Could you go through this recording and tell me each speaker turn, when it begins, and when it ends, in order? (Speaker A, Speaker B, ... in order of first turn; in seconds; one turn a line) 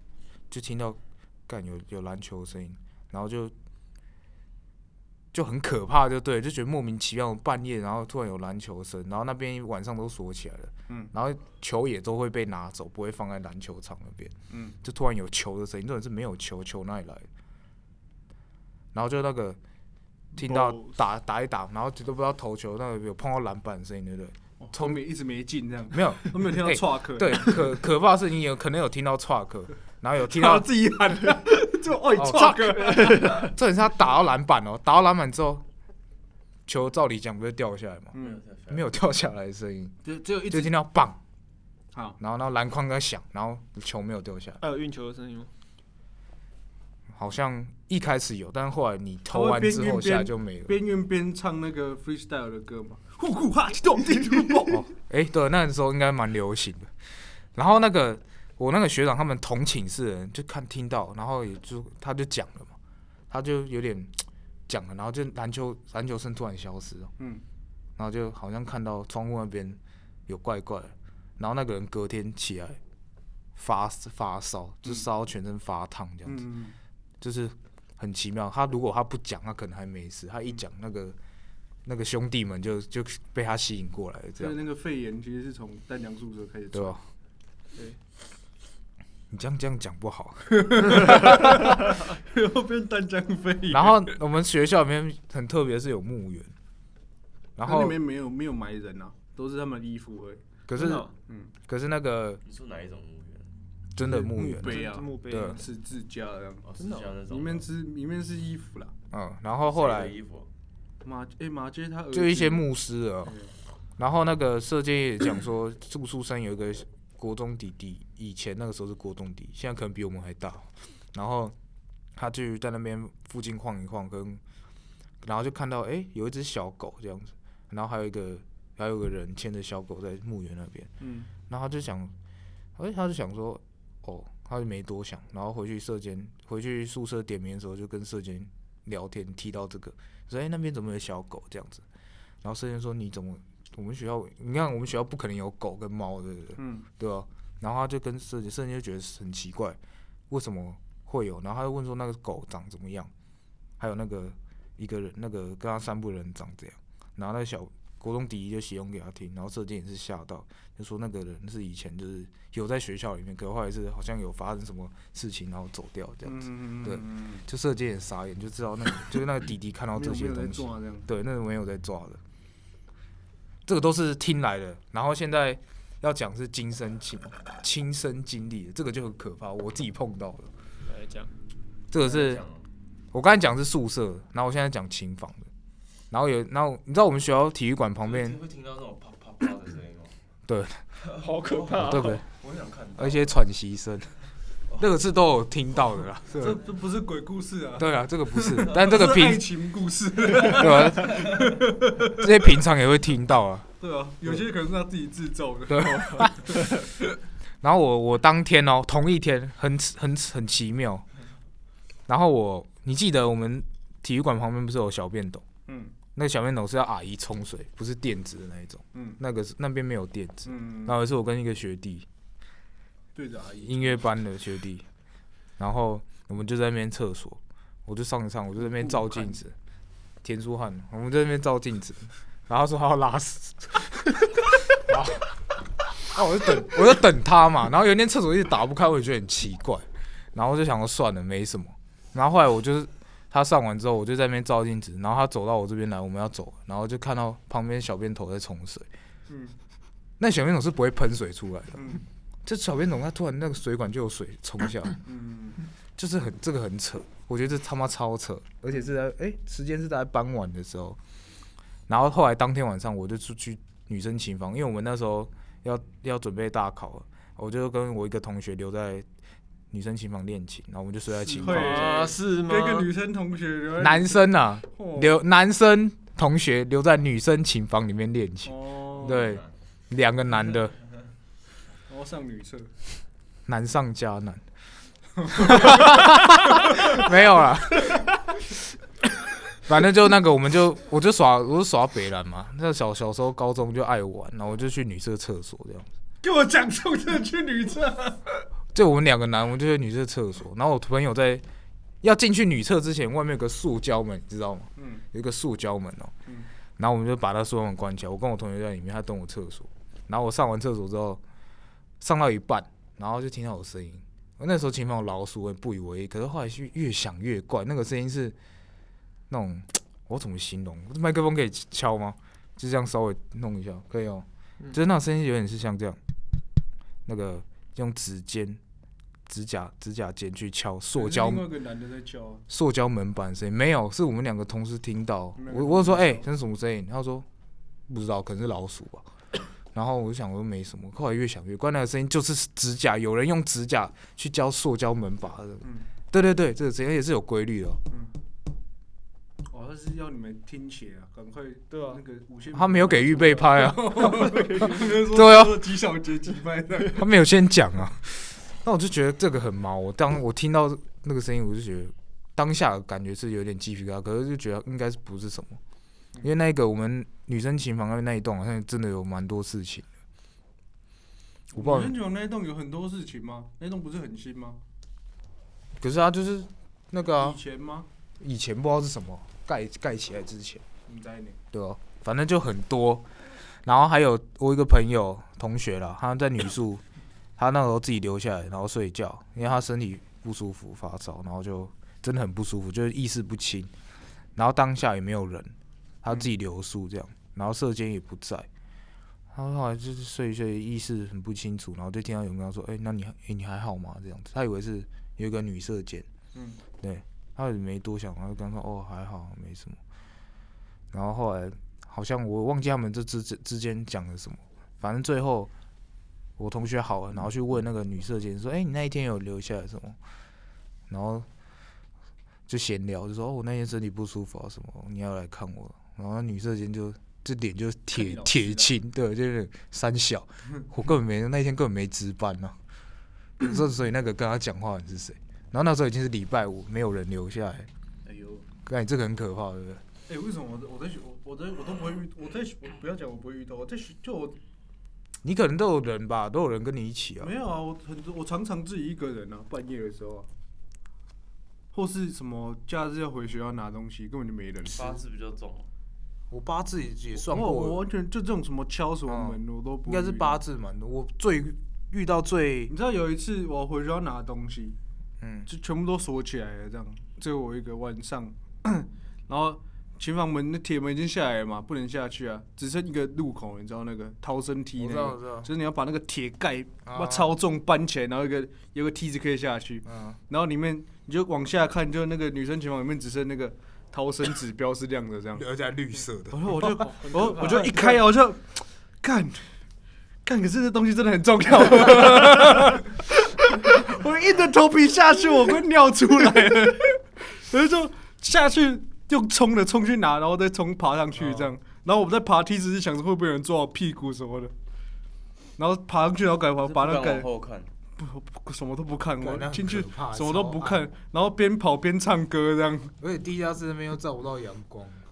Speaker A: 0.5-3.5
Speaker A: 5.3-17.3
Speaker B: 14.5-14.8
Speaker A: 18.9-19.6
Speaker A: 20.3-25.0
Speaker C: 20.4-20.8
Speaker B: 24.6-27.7
Speaker A: 25.9-30.7
Speaker B: 30.2-33.5
Speaker A: 32.1-35.6
Speaker C: 32.5-33.5
Speaker A: 36.7-38.1
Speaker B: 38.1-38.4
Speaker D: 38.1-38.9
Speaker A: 38.7-40.0
Speaker B: 40.0-40.7
Speaker A: 40.5-41.2
Speaker B: 41.9-42.2
Speaker A: 42.2-44.6
Speaker C: 44.6-45.5
Speaker A: 47.1-50.8
Speaker B: 49.3-54.9
Speaker A: 54.7-56.9
Speaker A: 57.5-62.8
Speaker A: 63.3-67.1
Speaker B: 67.2-67.4
Speaker A: 68.0-72.8
Speaker A: 73.5-76.5
Speaker B: 76.2-76.8
Speaker A: 77.2-81.2
Speaker A: 81.8-84.6
Speaker B: 84.4-87.0
Speaker A: 86.7-87.0
Speaker A: 89.3-91.7
Speaker B: 90.5-94.1
Speaker A: 93.7-96.5
Speaker A: 97.6-98.0
Speaker B: 97.6-100.4
Speaker A: 100.7-101.1
Speaker C: 100.7-101.1
Speaker B: 101.3-101.5
Speaker A: 101.7-102.4
Speaker D: 102.4-103.5
Speaker A: 103.9-105.6
Speaker B: 104.0-106.6
Speaker C: 104.1-105.6
Speaker D: 106.6-107.7
Speaker C: 106.8-107.1
Speaker B: 107.2-108.9
Speaker A: 109.1-110.1
Speaker D: 109.6-110.5
Speaker B: 111.0-112.7
Speaker A: 112.1-113.3
Speaker A: 114.0-121.5
Speaker A: 122.2-124.4
Speaker A: 125.2-130.9
Speaker B: 131.0-131.3
Speaker A: 131.5-132.1
Speaker A: 132.8-141.8
Speaker A: 142.4-149.8
Speaker B: 146.6-146.9
Speaker A: 150.3-153.1
Speaker A: 153.8-172.2
Speaker B: 166.2-167.4
Speaker B: 169.9-171.1
Speaker A: 173.7-180.5
Speaker C: 180.8-181.3
Speaker A: 181.9-182.4
Speaker D: 182.0-182.7
Speaker A: 183.1-185.5
Speaker A: 186.1-188.4
Speaker D: 188.0-190.2
Speaker A: 190.5-190.8
Speaker D: 191.0-193.3
Speaker C: 191.2-192.2
Speaker A: 191.8-192.2
Speaker A: 193.0-194.1
Speaker A: 194.8-196.6
Speaker B: 196.3-202.3
Speaker A: 197.8-199.4
Speaker A: 200.3-201.5
Speaker A: 202.1-203.7
Speaker B: 203.8-206.7
Speaker A: 205.7-206.7
Speaker A: 207.6-211.0
Speaker A: 212.1-215.4
Speaker B: 215.7-215.9
Speaker A: 216.1-222.1
Speaker B: 218.9-219.2
Speaker B: 220.4-221.0
Speaker B: 223.1-224.0
Speaker A: 223.6-224.8
Speaker A: 225.6-229.6
Speaker B: 228.8-229.3
Speaker A: 230.2-235.3
Speaker A: 236.0-248.9
Speaker B: 249.3-249.6
Speaker A: 250.2-255.0
Speaker B: 251.8-252.0
Speaker B: 255.1-255.6
Speaker A: 256.0-261.0
Speaker A: 261.9-269.1
Speaker A: 269.7-271.9
Speaker B: 271.2-275.2
Speaker C: 271.4-272.9
Speaker A: 273.8-280.8
Speaker B: 278.4-279.4
Speaker D: 279.1-279.5
Speaker B: 281.9-282.7
Speaker A: 283.5-284.4
Speaker B: 285.3-287.0
Speaker A: 285.3-288.1
Speaker A: 289.6-295.9
Speaker B: 296.2-298.4
Speaker A: 298.7-301.4
Speaker A: 302.0-306.1
Speaker B: 304.8-305.0
Speaker A: 306.8-311.2
Speaker A: 312.0-318.4
Speaker A: 319.3-326.0
Speaker A: 327.1-328.6
Speaker A: 329.3-331.5
Speaker B: 330.9-332.4
Speaker A: 332.5-337.2
Speaker B: 335.4-336.2
Speaker A: 337.9-339.1
Speaker A: 339.7-347.8
Speaker B: 345.6-345.9
Speaker B: 349.5-357.0
Speaker C: 351.7-352.0
Speaker A: 352.5-355.7
Speaker C: 354.0-354.8
Speaker A: 356.9-365.6
Speaker A: 366.2-369.9
Speaker B: 371.5-374.6
Speaker A: 371.5-371.9
Speaker A: 375.8-377.4
Speaker B: 377.0-377.9
Speaker A: 378.2-380.6
Speaker B: 380.9-381.4
Speaker A: 381.5-383.1
Speaker A: 383.6-386.8
Speaker A: 387.4-393.7
Speaker A: 394.4-398.5
Speaker A: 399.3-406.1
Speaker B: 406.3-406.6
Speaker A: 406.8-409.8
Speaker A: 410.9-415.5
Speaker A: 416.4-420.0
Speaker A: 420.9-421.3
Speaker A: 422.5-432.6
Speaker B: 427.9-428.7
Speaker A: 433.4-437.7
Speaker B: 438.0-438.4
Speaker A: 438.6-439.8
Speaker B: 440.1-444.4
Speaker A: 445.2-447.3
Speaker B: 447.2-450.3
Speaker B: 451.7-455.0
Speaker D: 454.6-455.7
Speaker A: 456.3-457.8
Speaker B: 457.2-460.4
Speaker A: 459.1-462.7
Speaker B: 462.7-464.8
Speaker A: 465.2-465.5
Speaker B: 465.5-485.4
Speaker A: 474.8-475.5
Speaker A: 476.8-477.3
Speaker A: 479.8-480.2
Speaker A: 485.3-486.7
Speaker B: 486.3-489.5
Speaker C: 486.6-488.0
Speaker B: 490.2-504.5
Speaker A: 501.1-501.5
Speaker B: 505.6-507.3
Speaker D: 506.6-507.7
Speaker B: 508.0-512.9
Speaker A: 509.2-510.8
Speaker A: 513.0-515.0